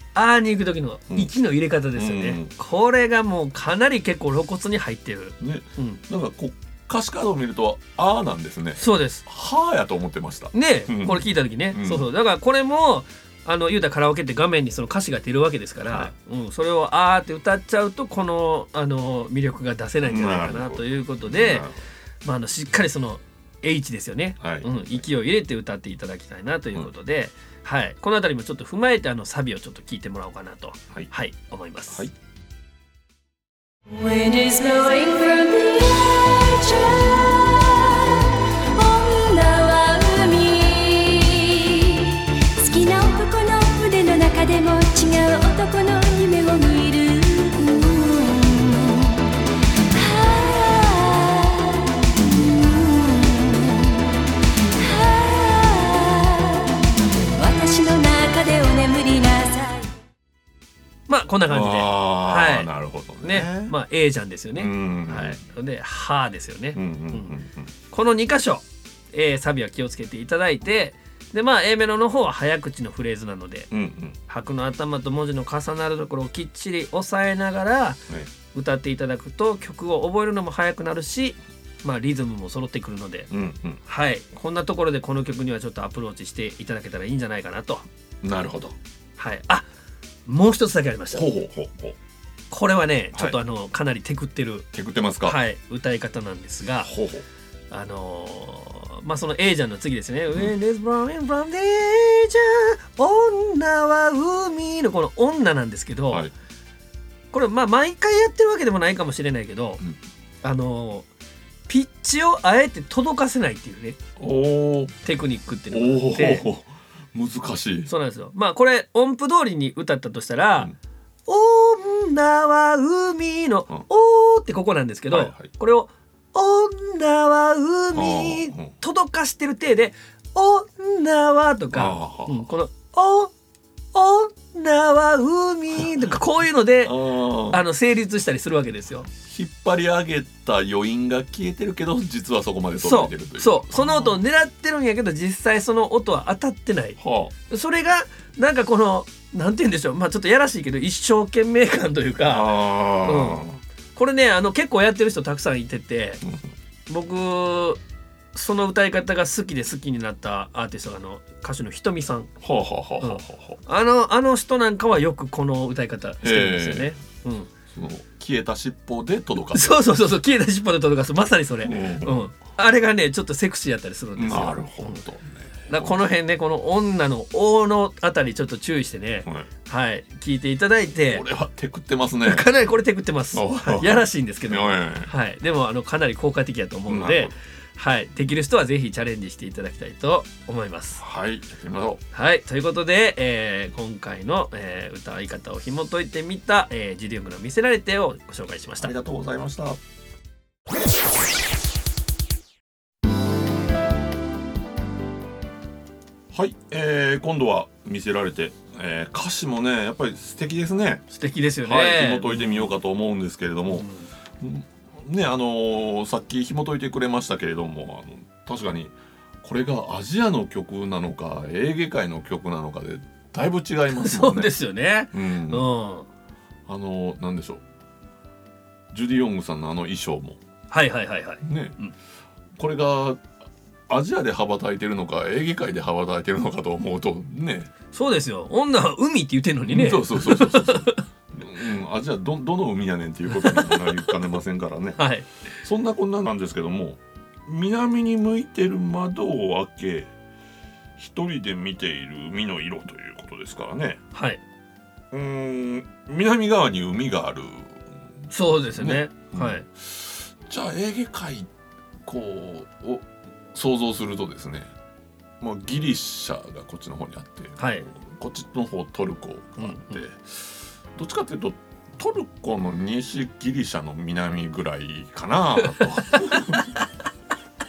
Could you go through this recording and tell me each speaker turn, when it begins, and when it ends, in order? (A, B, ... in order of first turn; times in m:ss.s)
0:00.1-0:06.0 A
0:01.9-0:02.5 B
0:05.4-0:12.0 B
0:08.8-0:09.2 A
0:10.5-0:21.6 A
0:15.8-0:16.1 B
0:20.0-0:21.8 B
0:22.2-0:32.0 A
0:24.4-0:24.7 B
0:33.9-0:49.3 C
0:49.9-0:56.7 C
0:57.3-0:59.9 C
1:01.1-1:02.7 A
1:01.5-1:03.7 B
1:03.2-1:07.3 A
1:04.6-1:05.4 B
1:06.7-1:07.7 B
1:07.9-1:13.7 A
1:13.7-1:14.2 B
1:14.3-1:18.0 A
1:18.5-1:23.3 A
1:23.3-1:23.8 B
1:23.8-1:27.8 A
1:28.2-1:28.8 B
1:29.2-1:29.6 A
1:30.2-1:31.2 A
1:31.1-1:32.0 B
1:32.5-1:34.7 A
1:34.7-1:35.4 B
1:35.2-1:36.9 A
1:36.8-1:37.2 B
1:37.7-1:46.2 A
1:47.3-1:49.8 A
1:50.4-1:51.1 A
1:51.7-1:54.0 A
1:54.2-1:55.0 B
1:55.0-1:56.4 A
1:55.7-1:57.9 B
1:57.9-2:00.7 A
2:01.3-2:13.3 A
2:05.1-2:05.5 B
2:07.9-2:08.7 B
2:11.7-2:12.5 B
2:13.9-2:19.1 A
2:16.8-2:17.6 B
2:19.1-2:24.2 B
2:22.8-2:27.0 A
2:27.0-2:27.3 B
2:27.5-2:36.2 A
2:32.2-2:33.6 B
2:36.2-2:36.5 B
2:36.9-2:37.8 A
2:38.3-2:42.3 A
2:42.4-2:43.6 B
2:43.0-2:47.5 A
2:46.2-2:46.9 B
2:47.7-2:49.8 B
2:49.5-2:55.0 A
2:51.6-2:52.2 B
2:54.2-2:55.9 B
2:55.7-3:01.2 A
2:59.2-2:59.5 B
3:01.1-3:02.5 B
3:02.2-3:11.0 A
3:03.3-3:05.1 B
3:06.9-3:07.3 B
3:11.0-3:12.0 B
3:12.1-3:18.9 A
3:18.8-3:19.8 B
3:26.3-3:31.0 B
3:31.1-3:32.7 A
3:31.6-3:33.9 B
3:33.7-3:34.1 A
3:34.4-3:44.5 B
3:43.9-3:46.1 A
3:45.1-3:45.6 B
3:46.7-3:47.6 B
3:48.9-3:50.4 B
3:50.7-3:51.9 A
3:51.4-3:51.8 B
3:52.6-3:53.2 B
3:53.9-3:57.7 B
3:57.9-4:01.0 A
3:59.7-4:05.0 B
4:03.3-4:04.2 A
4:05.0-4:05.3 A
4:05.6-4:10.1 B
4:11.0-4:14.0 B
4:14.1-4:14.4 A
4:15.1-4:18.0 B
4:18.3-4:19.6 A
4:18.7-4:21.5 B
4:22.0-4:24.7 B
4:25.4-4:36.7 B
4:27.6-4:27.8 A
4:29.6-4:30.0 A
4:35.6-4:36.5 A